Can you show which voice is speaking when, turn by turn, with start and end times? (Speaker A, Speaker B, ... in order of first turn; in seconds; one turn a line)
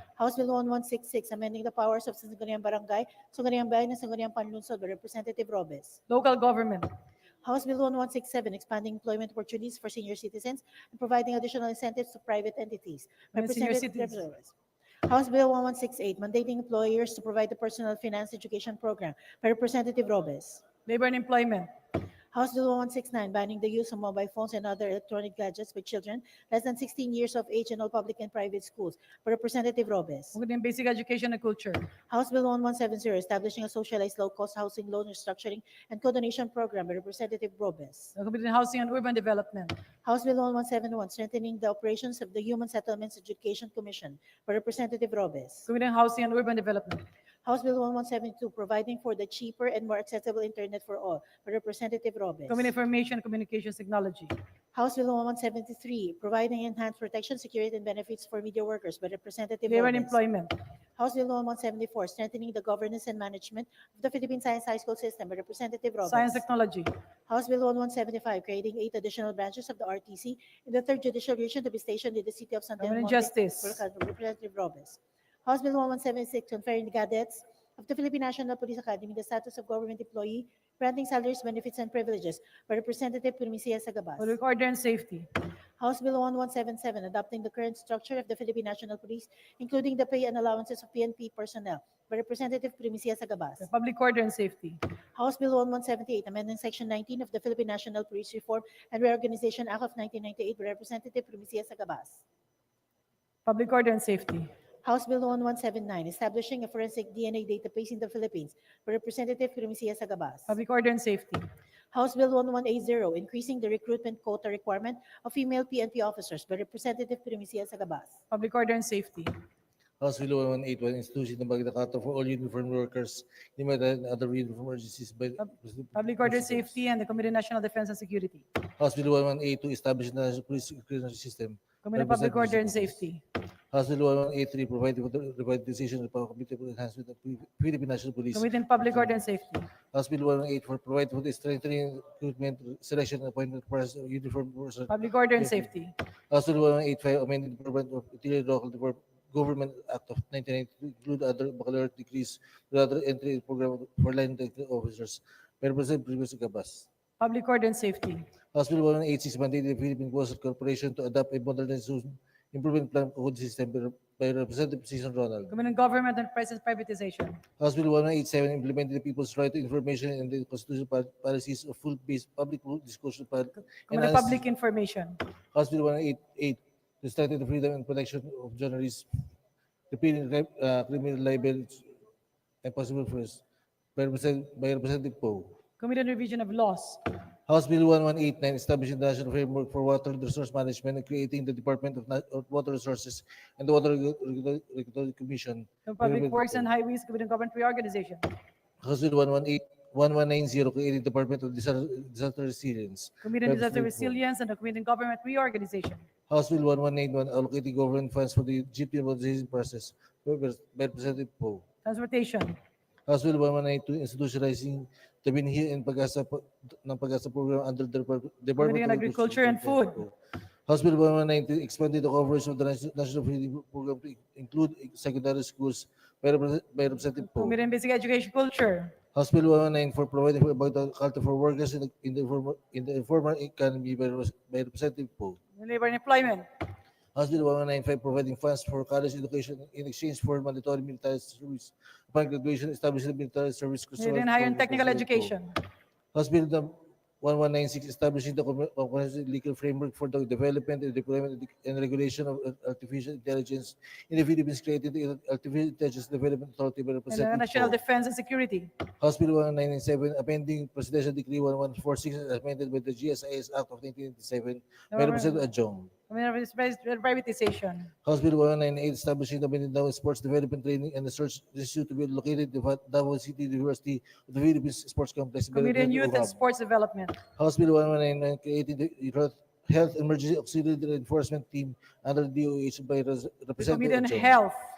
Speaker A: 0.2-6.0
Speaker B: 6.1-6.9
Speaker A: 7.4-20.7
Speaker B: 13.3-14.2
Speaker B: 20.9-21.7
Speaker A: 22.3-30.4
Speaker B: 30.3-31.9
Speaker A: 32.1-38.1
Speaker B: 38.2-39.8
Speaker A: 40.0-45.7
Speaker B: 45.7-47.0
Speaker A: 47.4-52.7
Speaker B: 52.5-54.4
Speaker A: 54.7-60.2
Speaker B: 59.7-60.5
Speaker A: 61.0-66.4
Speaker B: 66.1-66.9
Speaker A: 67.3-84.4
Speaker B: 72.8-73.8
Speaker B: 84.2-85.3
Speaker A: 85.8-93.7
Speaker B: 93.6-94.8
Speaker A: 95.2-102.2
Speaker B: 103.5-104.5
Speaker A: 104.8-110.6
Speaker B: 110.5-111.5
Speaker A: 111.9-118.2
Speaker B: 118.3-119.4
Speaker C: 120.0-126.7
Speaker B: 125.4-128.4
Speaker C: 128.8-133.0
Speaker B: 131.8-133.2
Speaker C: 133.7-139.1
Speaker B: 138.3-139.7
Speaker C: 139.9-145.7
Speaker B: 144.9-145.9
Speaker C: 146.3-156.9
Speaker B: 157.2-158.3
Speaker C: 158.5-165.5
Speaker B: 165.5-167.4
Speaker C: 167.6-174.4
Speaker B: 173.9-175.2
Speaker C: 175.5-179.1
Speaker C: 179.9-181.9
Speaker C: 182.6-183.4
Speaker C: 184.0-185.6
Speaker B: 185.8-187.0
Speaker C: 187.5-196.7
Speaker B: 195.9-198.3
Speaker C: 198.8-204.2
Speaker B: 203.2-206.1
Speaker C: 206.3-211.7
Speaker B: 211.8-212.6
Speaker C: 213.1-220.1
Speaker B: 218.6-220.0
Speaker C: 220.7-227.6
Speaker B: 227.2-228.9
Speaker C: 229.2-235.4
Speaker B: 235.6-236.5
Speaker C: 237.2-245.3
Speaker B: 244.0-245.6
Speaker C: 246.1-257.8
Speaker B: 257.1-258.7
Speaker C: 259.0-265.9
Speaker B: 264.9-265.4
Speaker B: 266.1-267.9
Speaker C: 268.1-276.4
Speaker B: 275.5-277.2
Speaker C: 277.4-284.4
Speaker B: 283.6-284.6